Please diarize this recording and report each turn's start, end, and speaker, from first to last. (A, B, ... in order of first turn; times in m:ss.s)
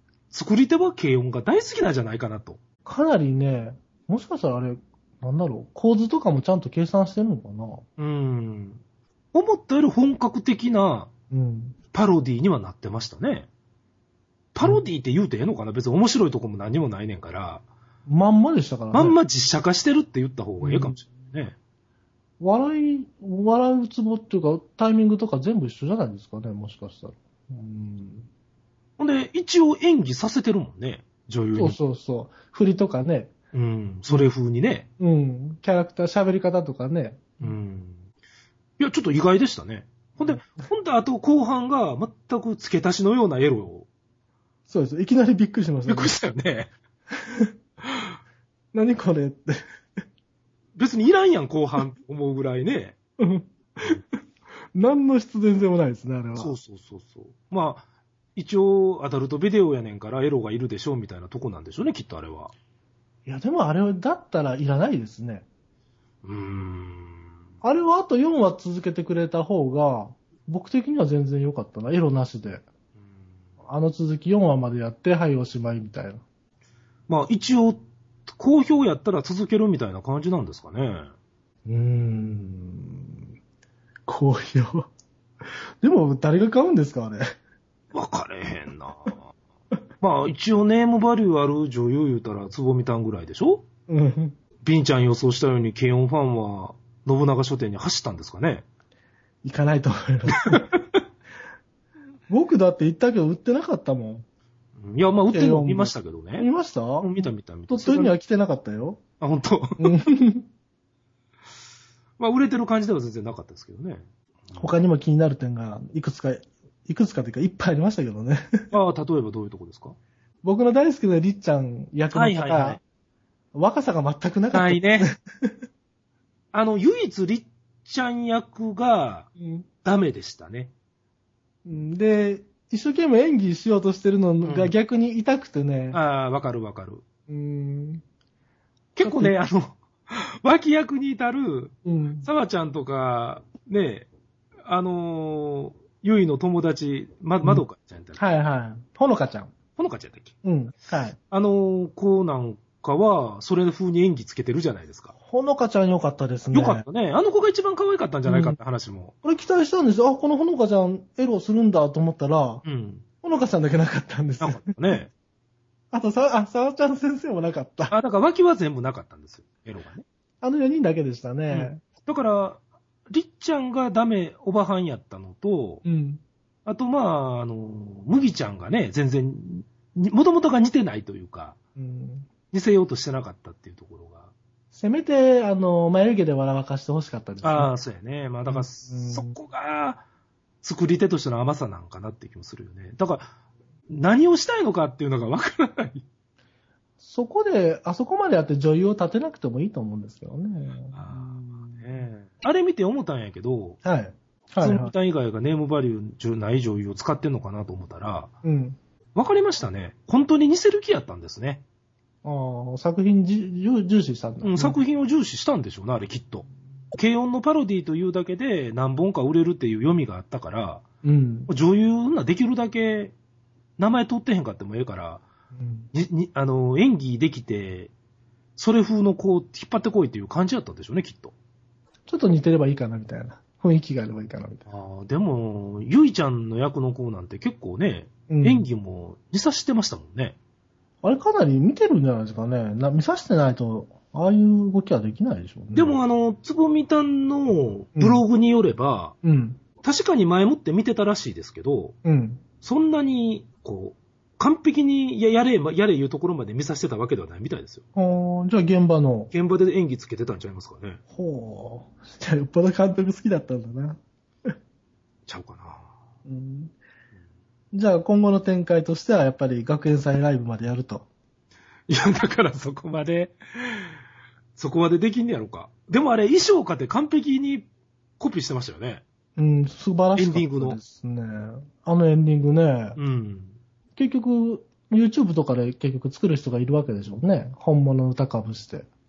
0:00.3-0:02.6 A
0:02.8-0:07.8 B
0:08.0-0:08.8 A
0:09.3-0:11.1 A
0:11.3-0:11.8 B
0:11.9-0:13.5 A
0:14.5-0:17.6 A
0:18.0-0:19.2 B
0:18.9-0:21.5 A
0:20.6-0:21.0 B
0:22.4-0:28.3 B
0:29.0-0:31.8 A
0:31.5-0:33.3 B
0:33.5-0:34.9 A
0:35.0-0:37.6 B
0:37.4-0:38.0 A
0:38.8-0:43.9 A
0:40.2-0:40.7 B
0:44.7-0:46.2 B
0:45.9-0:46.7 A
0:47.2-0:47.5 B
0:47.8-0:48.1 A
0:48.7-0:49.6 B
0:50.8-0:53.0 A
0:53.2-0:54.0 B
0:54.7-0:56.5 B
0:56.4-0:57.8 A
0:58.4-1:02.5 A
1:03.2-1:05.4 B
1:06.2-1:07.3 A
1:07.6-1:12.6 B
1:13.6-1:16.2 B
1:17.1-1:21.1 A
1:21.6-1:23.3 B
1:24.1-1:24.9 B
1:25.8-1:27.2 B
1:27.9-1:29.2 A
1:30.0-1:33.6 A
1:33.9-1:34.4 B
1:34.6-1:38.6 A
1:39.4-1:40.6 B
1:42.3-1:44.2 B
1:44.8-1:46.5 A
1:45.3-1:47.1 B
1:47.0-1:48.2 A
1:47.7-1:49.0 B
1:49.2-1:49.9 A
1:49.8-1:50.4 B
1:52.2-1:54.7 A
1:54.5-1:58.6 B
1:58.7-2:00.0 A
2:00.4-2:02.8 B
2:02.1-2:02.8 A
2:03.5-2:05.5 B
2:04.5-2:05.1 A
2:06.5-2:09.3 A
2:09.4-2:09.6 B
2:09.8-2:10.7 A
2:11.6-2:16.0 B
2:14.4-2:14.7 A
2:15.9-2:17.0 A
2:17.3-2:18.0 B
2:19.0-2:24.1 A
2:19.0-2:19.4 B
2:21.8-2:22.3 B
2:24.6-2:28.2 A
2:28.2-2:29.5 B
2:29.8-2:30.3 A
2:30.4-2:31.2 B
2:31.3-2:35.1 A
2:35.2-2:36.8 B
2:36.5-2:39.1 A
2:38.2-2:38.6 B
2:39.2-2:42.6 B
2:42.6-2:43.0 A
2:43.2-2:44.8 B
2:44.4-2:45.1 A
2:45.9-2:47.9 B
2:47.9-2:50.0 A
2:50.4-2:51.8 B
2:51.5-2:55.8 A
2:55.8-2:56.2 B
2:56.6-3:01.6 A
3:01.8-3:02.3 B
3:02.5-3:04.3 A
3:04.7-3:07.7 B
3:07.4-3:10.0 A
3:08.4-3:09.3 B
3:10.6-3:13.3 A
3:13.9-3:16.0 A
3:17.0-3:22.1 B
3:20.9-3:23.8 A
3:23.8-3:24.9 B
3:24.6-3:28.3 A
3:28.4-3:28.8 B
3:29.2-3:31.6 A
3:32.2-3:34.8 B
3:34.4-3:40.8 A
3:41.0-3:41.5 B
3:41.5-3:43.1 A
3:43.8-3:45.2 A
3:45.5-3:45.9 B
3:45.9-3:47.9 A
3:48.6-3:51.3 A
3:52.1-3:54.6 B
3:54.6-4:00.4 A
3:58.3-3:58.7 B
4:01.0-4:06.0 B
4:05.7-4:09.1 A
4:08.0-4:08.2 B
4:09.2-4:09.6 B
4:09.8-4:11.9 A
4:12.0-4:12.4 B
4:12.6-4:17.8 A
4:17.9-4:19.3 B
4:19.3-4:21.0 A
4:21.1-4:24.0 B
4:25.3-4:25.9 A
4:26.2-4:26.8 B
4:27.7-4:31.1 B
4:31.9-4:34.0 A
4:34.6-4:37.7 A
4:38.2-4:39.0 A
4:39.4-4:43.0 B
4:40.2-4:40.8 A
4:43.0-4:43.6 A
4:44.0-4:48.9 B